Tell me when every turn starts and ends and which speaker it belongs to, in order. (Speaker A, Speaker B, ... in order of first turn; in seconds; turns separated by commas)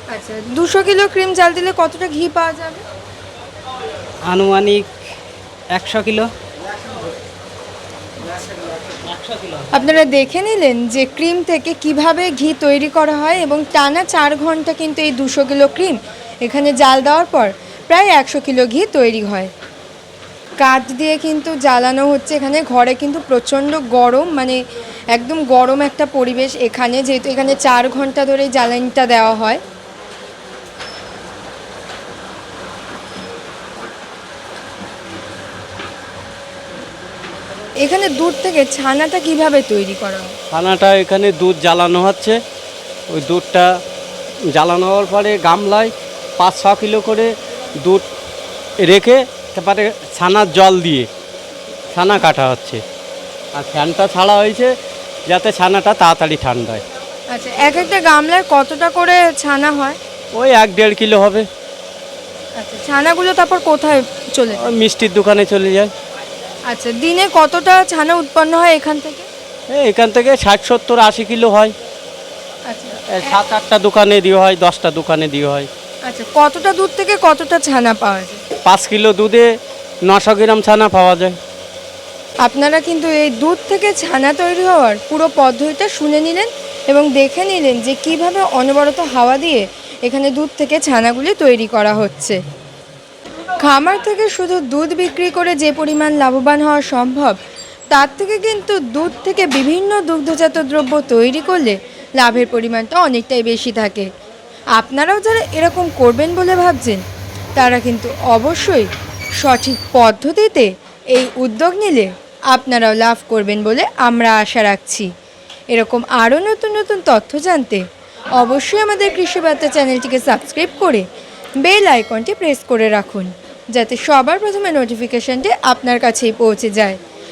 Speaker A: 0.1-2.8, Speaker B: 4.3-4.9, Speaker B: 5.7-6.3, Speaker B: 9.1-9.6, Speaker A: 9.7-19.5, Speaker A: 20.6-24.6, Speaker A: 25.1-29.6, Speaker A: 37.8-40.4, Speaker B: 40.5-42.4, Speaker B: 43.1-43.7, Speaker B: 44.5-48.0, Speaker B: 48.8-51.1, Speaker B: 51.9-52.8, Speaker B: 53.6-54.7, Speaker B: 55.3-56.8, Speaker A: 57.3-60.0, Speaker B: 60.3-61.5, Speaker A: 62.6-64.7, Speaker B: 64.6-65.9, Speaker A: 66.7-69.3, Speaker B: 69.7-71.8, Speaker A: 72.7-73.3, Speaker B: 73.1-75.7, Speaker A: 76.0-78.4, Speaker B: 78.7-79.5, Speaker B: 80.1-81.4, Speaker A: 82.4-92.4, Speaker A: 93.6-97.4, Speaker A: 97.9-104.1, Speaker A: 104.8-107.0, Speaker A: 107.6-115.1, Speaker A: 115.7-117.8, Speaker A: 118.4-121.0, Speaker A: 121.6-127.0